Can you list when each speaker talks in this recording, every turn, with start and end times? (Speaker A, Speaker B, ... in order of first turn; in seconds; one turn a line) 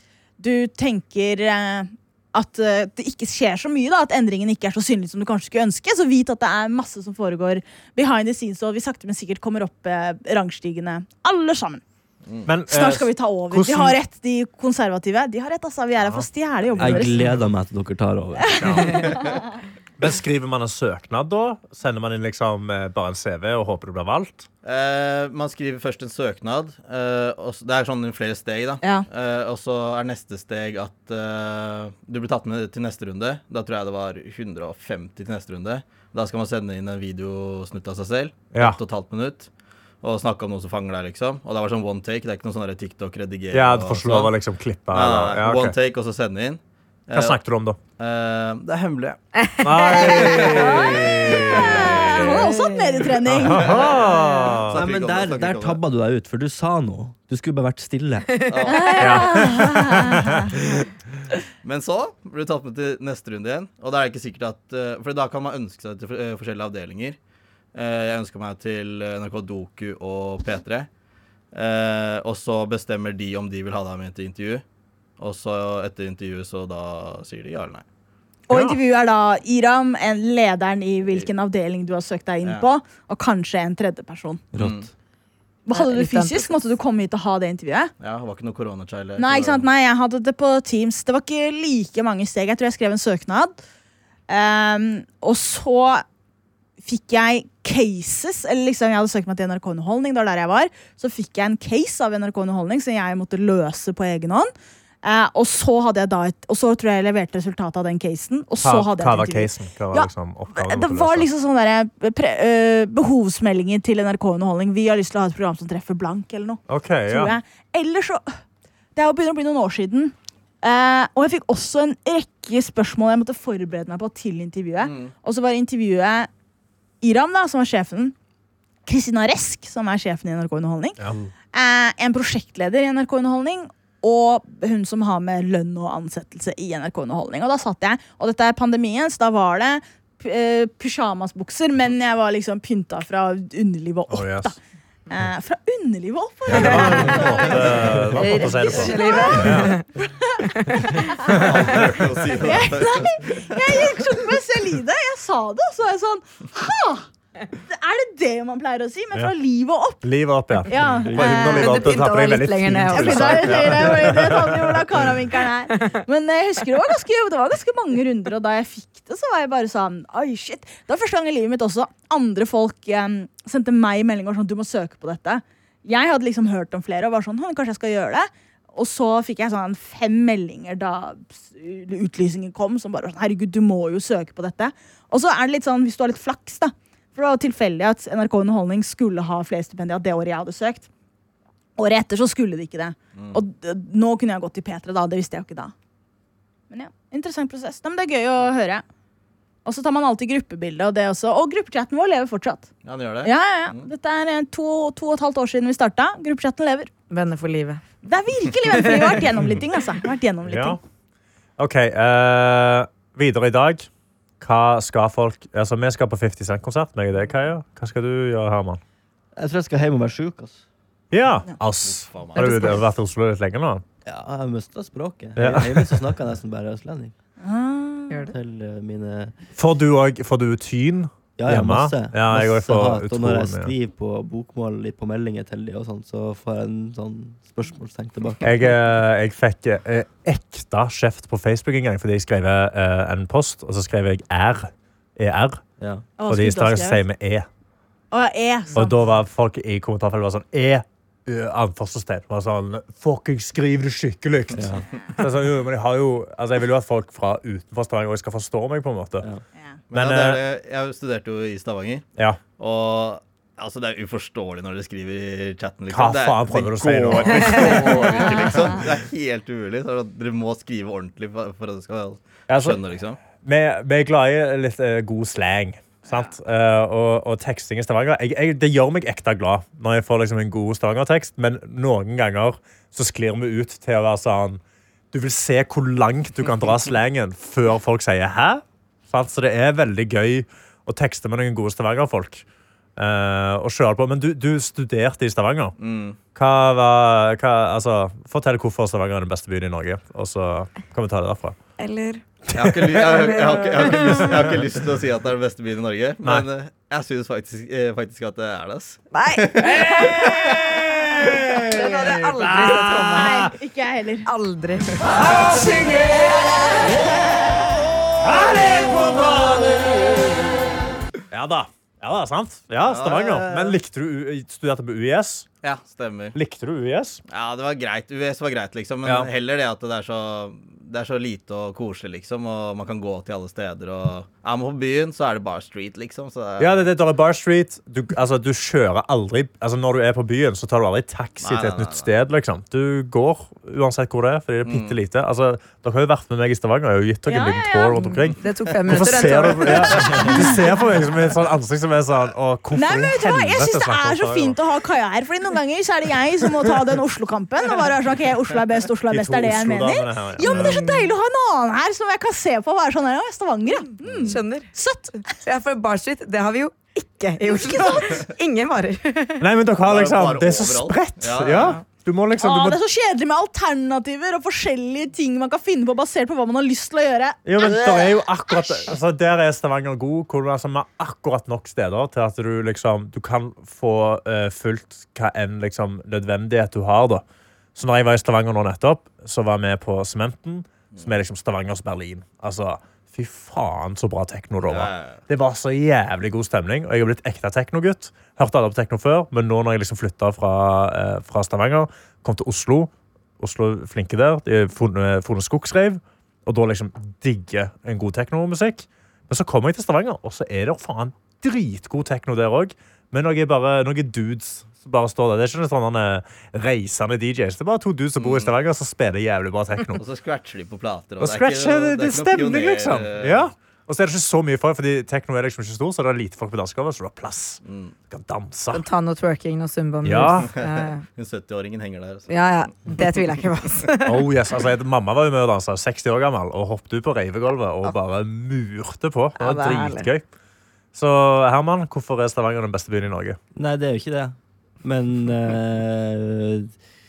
Speaker A: 0.4-11.8
Speaker B: 12.4-14.0
Speaker A: 12.7-17.3
Speaker B: 16.0-17.4
Speaker C: 16.8-19.2
Speaker A: 18.5-19.3
Speaker B: 18.6-19.1
Speaker B: 20.0-24.4
Speaker D: 24.6-39.5
Speaker D: 40.0-44.3
Speaker B: 43.5-45.8
Speaker D: 44.9-47.4
Speaker B: 47.1-47.8
Speaker D: 48.0-49.2
Speaker B: 49.6-52.5
Speaker D: 49.9-52.3
Speaker A: 50.0-53.9
Speaker E: 52.3-53.1
Speaker B: 53.2-54.8
Speaker D: 53.4-55.8
Speaker E: 54.0-54.4
Speaker C: 54.7-58.5
Speaker E: 58.4-58.8
Speaker D: 58.5-59.3
Speaker A: 58.6-60.5
Speaker B: 59.0-60.3
Speaker D: 61.6-67.2
Speaker D: 67.7-70.9
Speaker D: 71.5-74.6
Speaker D: 75.2-77.8
Speaker A: 78.5-84.5
Speaker B: 78.5-78.8
Speaker C: 84.5-84.9
Speaker D: 84.5-84.9
Speaker A: 85.7-87.9
Speaker E: 85.7-86.5
Speaker D: 88.0-89.7
Speaker A: 89.2-93.6
Speaker A: 94.3-96.0
Speaker A: 96.8-104.5
Speaker A: 105.0-118.4
Speaker B: 108.6-111.3
Speaker B: 116.7-117.3
Speaker A: 118.9-126.3
Speaker D: 124.8-125.1
Speaker A: 127.0-128.1
Speaker A: 128.8-131.0
Speaker B: 131.0-131.3
Speaker A: 131.5-144.6
Speaker B: 144.1-144.5
Speaker A: 145.1-151.5
Speaker B: 146.5-149.8
Speaker E: 146.6-147.2
Speaker E: 148.1-149.8
Speaker E: 150.6-151.1
Speaker D: 151.2-153.8
Speaker B: 151.3-152.0
Speaker A: 152.4-160.0
Speaker B: 160.0-165.1
Speaker A: 160.7-162.0
Speaker E: 161.2-164.2
Speaker A: 162.9-190.9
Speaker A: 191.8-195.7
Speaker D: 193.1-193.4
Speaker A: 196.7-198.8
Speaker A: 199.6-202.7
Speaker D: 202.8-203.8
Speaker A: 203.2-206.9
Speaker E: 207.1-207.8
Speaker A: 208.0-210.8
Speaker E: 208.7-209.0
Speaker B: 210.4-210.8
Speaker B: 211.6-213.9
Speaker B: 214.4-218.8
Speaker C: 219.3-220.6
Speaker B: 221.1-223.8
Speaker D: 221.8-222.8
Speaker C: 224.0-227.1
Speaker B: 225.4-226.1
Speaker A: 227.4-228.3
Speaker C: 228.3-229.3
Speaker B: 229.6-233.7
Speaker C: 231.3-238.7
Speaker B: 238.4-245.6
Speaker C: 245.8-246.1
Speaker A: 246.2-247.0
Speaker B: 246.2-247.5
Speaker A: 248.1-248.9
Speaker B: 248.7-259.3
Speaker C: 254.5-254.8
Speaker D: 259.9-262.0
Speaker B: 259.9-260.4
Speaker D: 262.6-273.2
Speaker B: 265.9-268.4
Speaker B: 272.5-272.8
Speaker B: 273.3-284.6
Speaker B: 285.1-292.4
Speaker B: 293.0-295.7
Speaker D: 295.8-296.2
Speaker B: 296.3-301.6
Speaker E: 301.8-302.2
Speaker D: 302.5-310.1
Speaker B: 302.5-303.3
Speaker E: 303.2-304.3
Speaker B: 304.0-304.4
Speaker E: 309.1-310.2
Speaker B: 310.0-313.5
Speaker E: 311.7-313.5
Speaker A: 313.0-314.3
Speaker E: 314.2-316.7
Speaker B: 315.1-316.0
Speaker A: 316.9-317.6
Speaker B: 318.2-320.2
Speaker B: 321.3-325.5
Speaker D: 322.9-323.8
Speaker D: 325.6-326.4
Speaker B: 326.3-327.2
Speaker D: 327.3-336.9
Speaker B: 336.6-354.6
Speaker D: 341.4-342.1
Speaker D: 344.6-344.9
Speaker A: 347.3-348.2
Speaker E: 348.4-350.6
Speaker A: 352.7-365.1
Speaker B: 359.1-360.8
Speaker E: 360.5-361.1
Speaker D: 364.0-364.4
Speaker E: 364.2-369.4
Speaker A: 367.4-368.2
Speaker B: 369.4-372.8
Speaker D: 369.8-371.8
Speaker A: 372.4-378.9
Speaker B: 377.4-387.2
Speaker B: 387.7-420.0
Speaker D: 394.6-395.2
Speaker D: 418.2-418.5
Speaker D: 420.0-423.5
Speaker B: 421.2-428.8
Speaker D: 427.6-427.9
Speaker E: 428.7-431.0
Speaker B: 430.0-430.5
Speaker D: 430.5-432.3
Speaker E: 432.3-434.3
Speaker B: 434.0-440.2
Speaker E: 439.4-440.1
Speaker B: 440.9-443.4
Speaker C: 443.5-446.7